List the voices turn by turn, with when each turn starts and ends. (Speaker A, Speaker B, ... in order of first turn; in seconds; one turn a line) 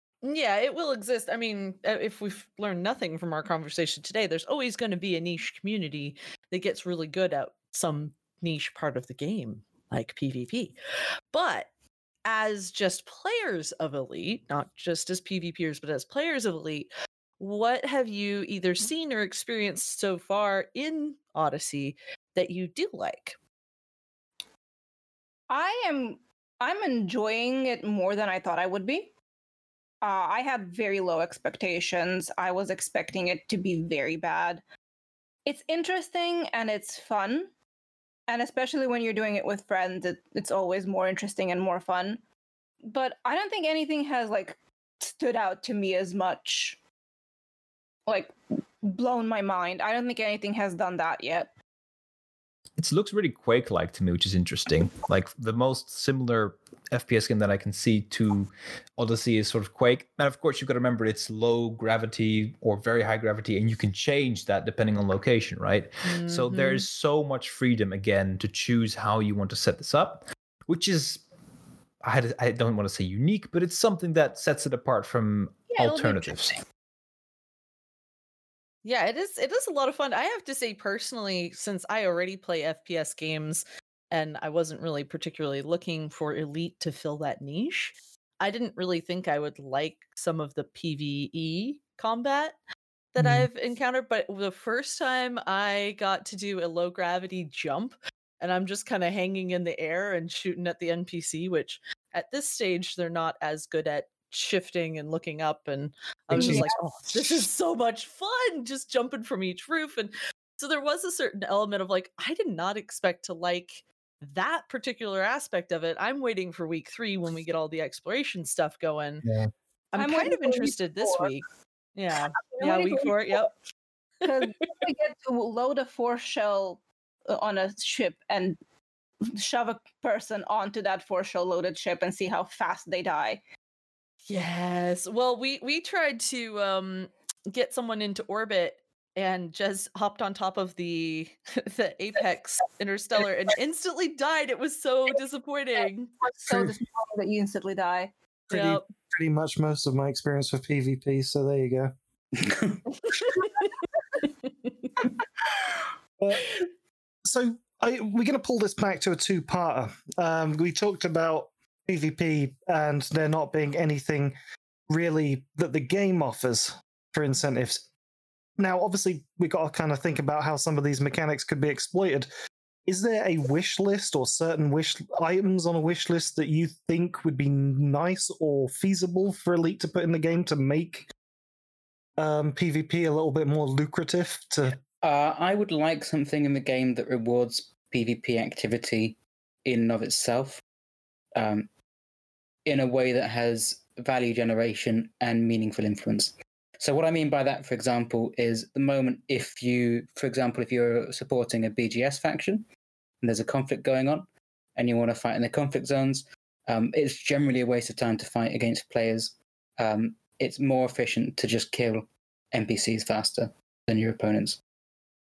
Speaker A: 0.2-10.7
Speaker A: 11.3-11.7
Speaker A: 12.2-23.4
Speaker B: 25.5-29.1
Speaker B: 30.0-34.6
Speaker B: 35.5-37.5
Speaker B: 38.3-42.2
Speaker B: 42.9-46.8
Speaker B: 48.1-51.5
Speaker C: 52.8-71.2
Speaker A: 66.0-66.9
Speaker C: 72.0-76.6
Speaker B: 75.7-76.6
Speaker A: 78.8-92.6
Speaker A: 93.1-119.2
Speaker D: 93.2-93.5
Speaker B: 106.3-106.7
Speaker D: 106.3-106.9
Speaker D: 119.2-119.5
Speaker A: 119.9-123.5
Speaker B: 120.0-121.3
Speaker B: 122.5-123.5
Speaker A: 124.2-124.7
Speaker B: 124.2-128.6
Speaker B: 129.3-133.4
Speaker A: 134.3-146.1
Speaker B: 146.2-148.1
Speaker D: 148.5-151.9
Speaker A: 148.5-148.8
Speaker D: 156.2-156.4
Speaker D: 157.2-164.3
Speaker D: 164.9-167.9
Speaker D: 168.6-172.3
Speaker D: 172.9-181.1
Speaker D: 182.2-184.8
Speaker E: 185.0-190.6
Speaker E: 191.4-191.7
Speaker E: 192.7-202.7
Speaker E: 203.2-214.6